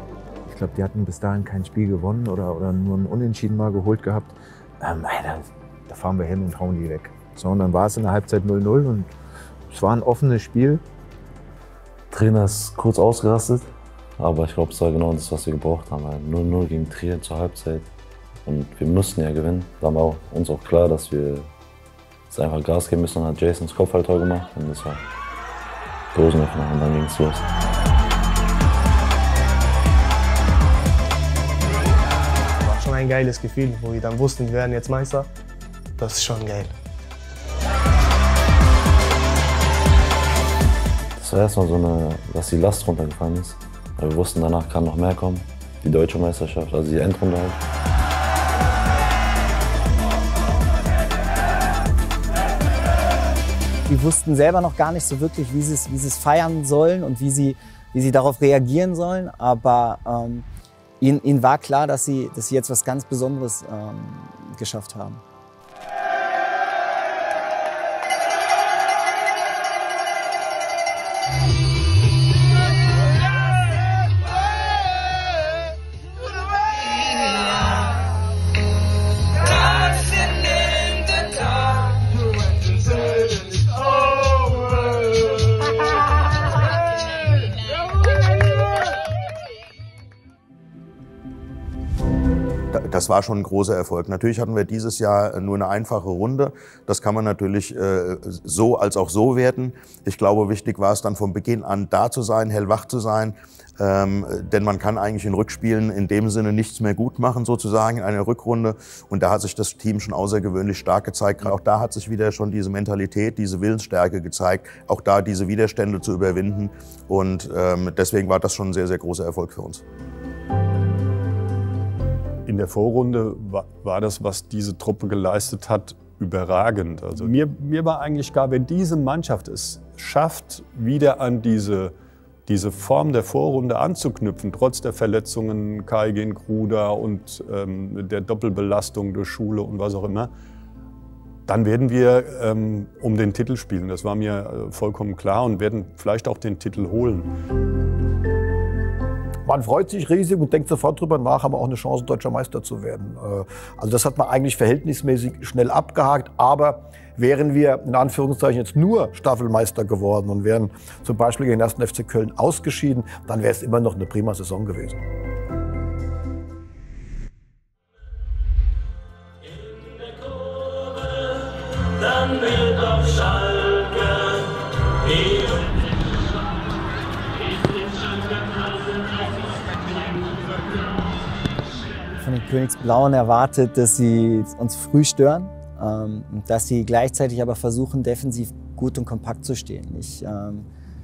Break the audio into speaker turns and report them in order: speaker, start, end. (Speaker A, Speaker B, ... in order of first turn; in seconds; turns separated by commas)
Speaker A: 0.5-9.1, Speaker A: 9.7-10.8, Speaker B: 12.1-17.9, Speaker B: 18.4-21.5, Speaker B: 22.3-25.0, Speaker B: 26.1-27.4, Speaker C: 32.6-35.3, Speaker C: 36.0-36.8, Speaker B: 41.2-47.6, Speaker D: 53.9-60.5, Speaker D: 61.0-65.2, Speaker E: 92.7-119.8, Speaker F: 122.5-131.9, Speaker F: 132.5-140.3, Speaker F: 141.4-147.3, Speaker G: 149.4-165.0, Speaker D: 182.2-190.7